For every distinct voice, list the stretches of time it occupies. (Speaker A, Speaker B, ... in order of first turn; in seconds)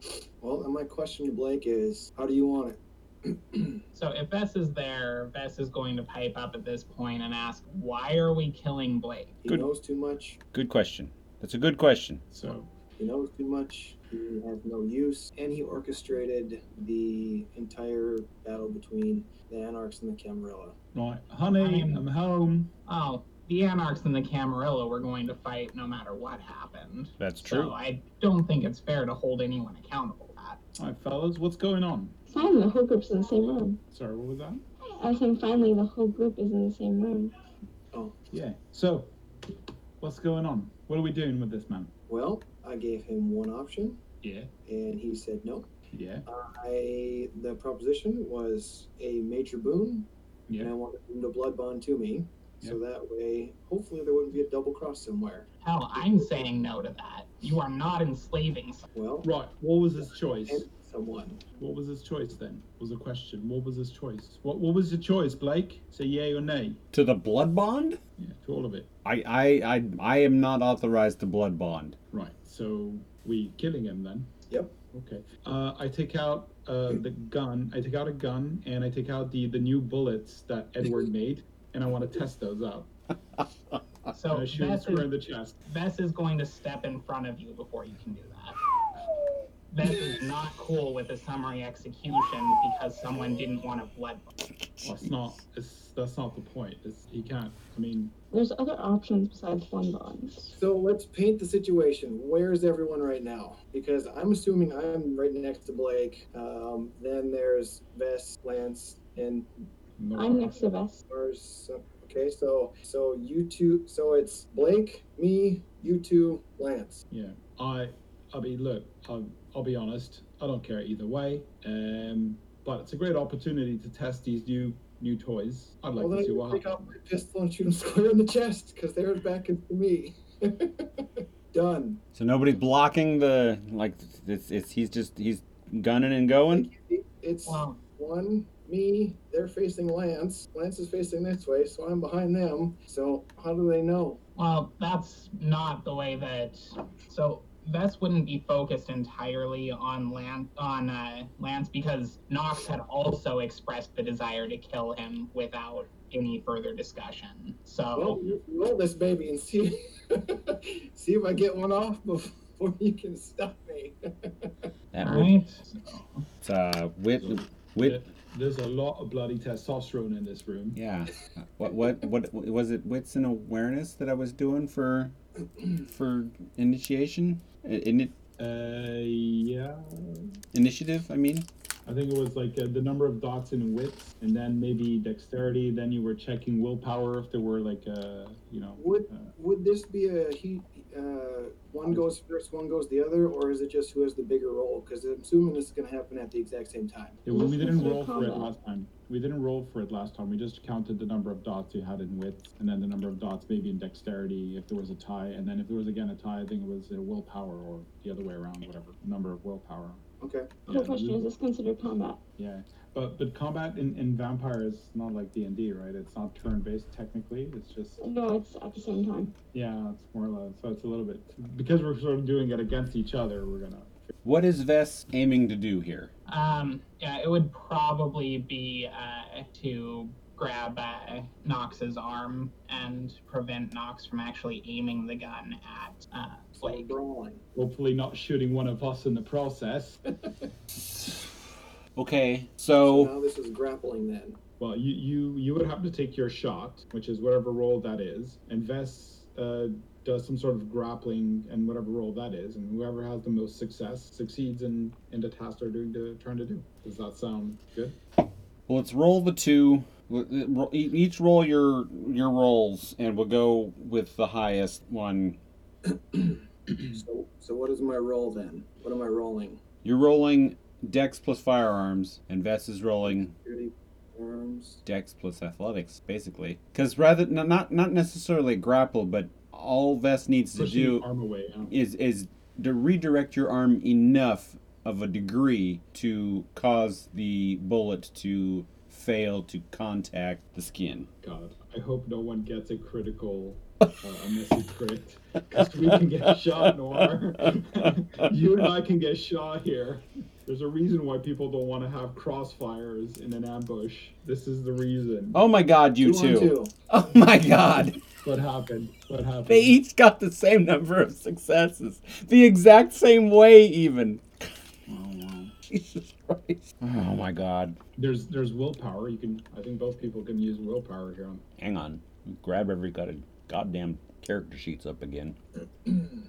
Speaker A: 0.4-3.8, 9.4-10.4, 13.0-20.8, 42.1-44.0, 44.7-45.7, 46.3-55.5, 59.0-59.3, 60.3-61.4, 74.5-74.8, 100.5-109.5, 111.1-117.0, 126.0-132.0, 136.5-144.2, 157.9-164.7, 188.8-197.2, 210.2-210.6, 236.6-237.4, 242.8-244.4, 266.1-269.6, 273.1-274.8, 306.0-306.7
Speaker B: 3.9-9.4, 21.6-22.1, 22.9-30.6, 55.6-58.9, 84.1-85.1, 85.7-88.6, 89.7-94.4, 137.4-137.8, 144.4-158.2, 165.0-166.2, 226.3-236.9
Speaker C: 10.5-12.2, 27.2-27.7, 66.9-68.0, 69.0-72.0, 94.6-95.0, 132.2-136.7, 164.9-165.4, 166.4-168.0, 170.8-175.2, 175.7-178.2, 180.5-181.5, 224.2-226.1, 240.7-243.1, 258.7-265.4, 269.8-273.3, 274.9-281.1, 281.7-291.1, 305.3-308.0, 309.5-314.5, 315.7-317.8, 321.6-325.4
Speaker D: 12.3-12.7, 20.9-22.7, 30.8-32.2, 33.9-34.6, 38.3-39.1, 40.0-41.9, 44.2-44.5, 45.9-46.2, 50.5-50.7, 59.2-60.6, 61.6-66.8, 68.2-68.9, 72.1-74.3, 74.9-82.9, 84.3-85.6, 94.8-98.2, 110.0-110.6, 117.1-126.9, 167.8-170.8, 178.4-180.3, 181.8-189.3, 197.3-210.0, 210.7-211.3, 212.4-218.1, 219.5-224.1, 237.6-240.0, 244.6-258.0, 280.5-281.7, 291.2-305.4, 308.2-309.8, 314.9-315.5, 318.0-321.4
Speaker E: 32.3-33.8, 35.0-37.3, 98.3-100.5, 110.1-111.0, 197.3-198.5, 210.7-212.2, 218.0-219.3